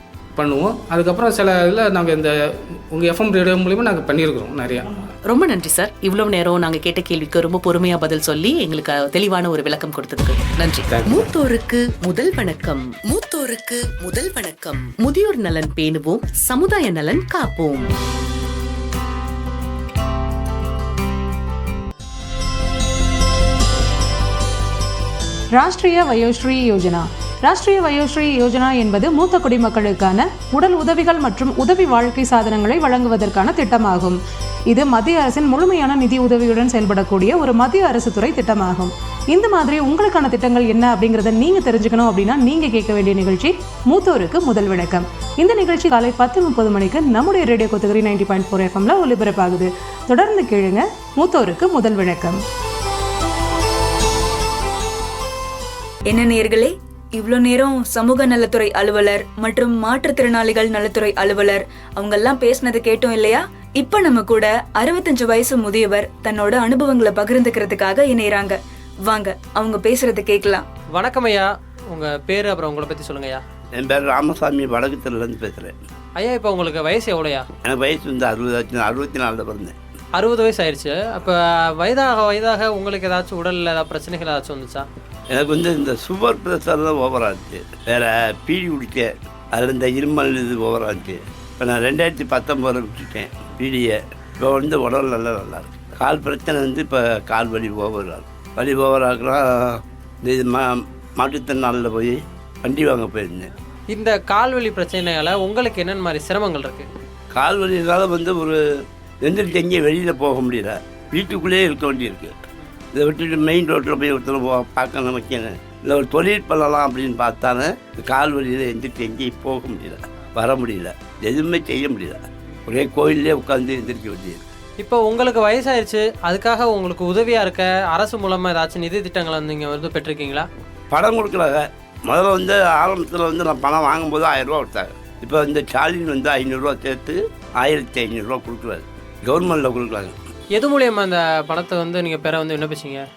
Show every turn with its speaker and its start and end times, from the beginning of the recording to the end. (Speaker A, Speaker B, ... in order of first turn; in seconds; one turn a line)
Speaker A: 0.4-4.9
Speaker B: 5.3-17.9
Speaker A: 10.9-11.2
Speaker C: 25.5-52.4
Speaker D: 56.1-70.6
Speaker E: 70.9-73.4
Speaker F: 73.8-75.7
Speaker E: 76.2-77.5
Speaker F: 77.6-79.8
Speaker E: 80.2-84.9
Speaker F: 85.3-103.5
Speaker E: 103.9-106.9
Speaker F: 107.3-108.6
Speaker F: 109.2-112.3
Speaker F: 112.9-124.4
Speaker E: 124.8-130.5
Speaker F: 130.9-140.1
Speaker E: 140.5-143.1